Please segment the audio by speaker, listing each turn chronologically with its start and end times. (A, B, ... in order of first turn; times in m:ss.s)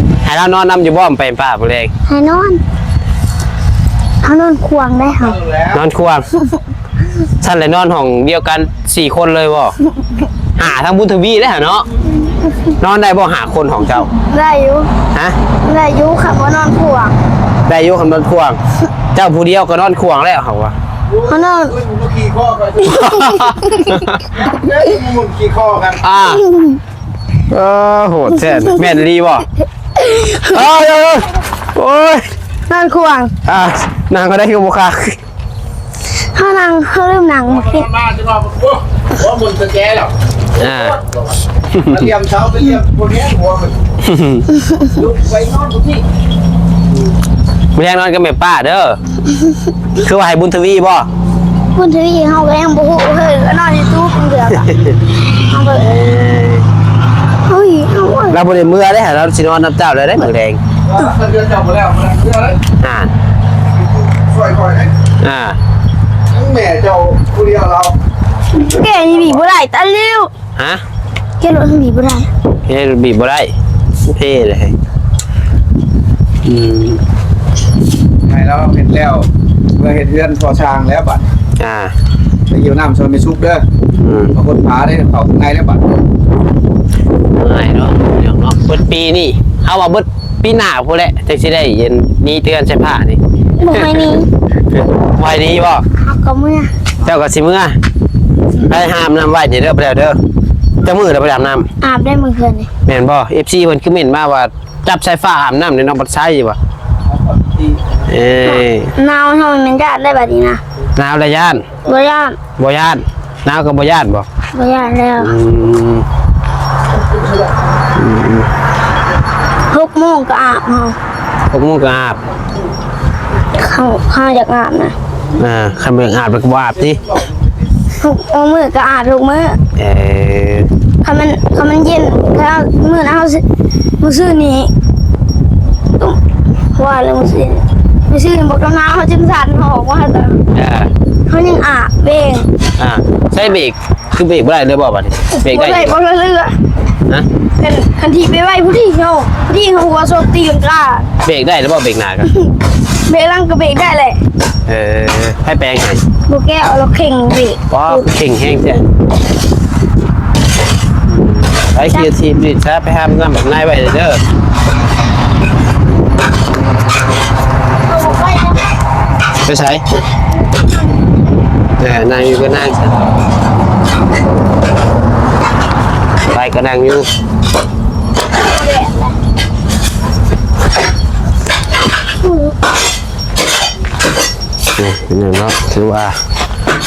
0:00.2-0:01.9 A
0:02.1-0:02.6 B
0:04.2-0:05.4 B
0:05.1-0:05.8 C
0:05.7-0:06.3 A
0:07.4-0:09.8 A
0:10.6-0:11.9 A
0:12.2-0:12.7 B
0:12.8-0:14.1 A
0:14.1-0:14.9 B
0:15.6-0:17.1 B
0:17.7-0:18.6 A
0:19.1-0:20.7 A
0:21.1-0:23.1 C
0:21.3-0:21.7 B
0:22.9-0:24.2 A
0:23.0-0:24.0 B
0:24.3-0:26.1 C
0:26.0-0:26.4 A
0:26.2-0:26.8 B
0:27.5-0:29.5 A
0:30.0-0:30.4 B
0:30.3-0:32.2 A
0:32.7-0:33.3 B
0:33.4-0:35.2 A
0:36.1-0:37.8 B
0:37.4-0:43.8 C
0:40.6-0:41.0 A
0:41.7-0:42.0 A
0:44.0-0:44.5 A
0:44.8-0:46.0 C
0:47.7-0:49.0 A
0:49.3-0:49.6 B
0:50.0-0:51.1 A
0:51.7-0:54.8 B
0:55.4-0:55.9 B
0:55.8-0:56.6 A
0:57.4-0:58.4 B
0:58.3-1:00.6 A
1:00.8-1:02.6 C
1:02.8-1:03.1 A
1:03.8-1:04.9 C
1:05.2-1:05.6 A
1:06.3-1:08.0 C
1:08.5-1:10.3 B
1:09.0-1:09.4 C
1:10.6-1:10.8 A
1:11.4-1:12.3 B
1:12.7-1:14.7 A
1:16.4-1:17.0 A
1:18.2-1:21.3 C
1:21.6-1:21.9 A
1:22.5-1:23.6 C
1:24.0-1:24.4 A
1:24.3-1:25.8 C
1:27.3-1:33.2 A
1:33.6-1:34.3 B
1:33.7-1:34.0 A
1:34.7-1:35.8 A
1:36.0-1:36.7 B
1:37.0-1:37.8 A
1:38.6-1:40.2 A
1:40.8-1:41.7 A
1:41.8-1:42.7 B
1:42.8-1:46.6 A
1:47.1-1:48.2 C
1:48.1-1:48.9 A
1:48.4-1:50.6 B
1:51.0-1:51.8 A
1:51.8-1:52.4 B
1:52.6-1:54.3 A
1:54.5-1:55.3 B
1:55.2-1:56.0 A
1:57.1-1:57.5 C
1:57.9-1:58.5 A
1:59.7-2:01.0 B
2:01.5-2:02.2 A
2:03.5-2:04.9 B
2:05.4-2:07.0 A
2:06.9-2:07.5 C
2:08.0-2:09.6 B
2:09.8-2:10.7 A
2:11.0-2:13.4 B
2:14.0-2:14.7 B
2:16.7-2:20.4 B
2:20.5-2:20.9 A
2:21.3-2:22.5 B
2:22.8-2:26.0 A
2:25.3-2:26.5 B
2:27.6-2:31.1 B
2:31.2-2:32.3 A
2:32.2-2:34.2 B
2:34.7-2:36.0 A
2:36.3-2:38.1 B
2:37.7-2:38.9 A
2:41.1-2:44.2 A
2:47.8-2:48.7 B
2:49.4-2:49.8 A
2:50.3-2:51.3 B
2:51.8-2:53.0 A
2:56.3-2:57.1 A
2:58.3-2:59.2 B
3:02.2-3:02.6 B
3:04.8-3:06.2 A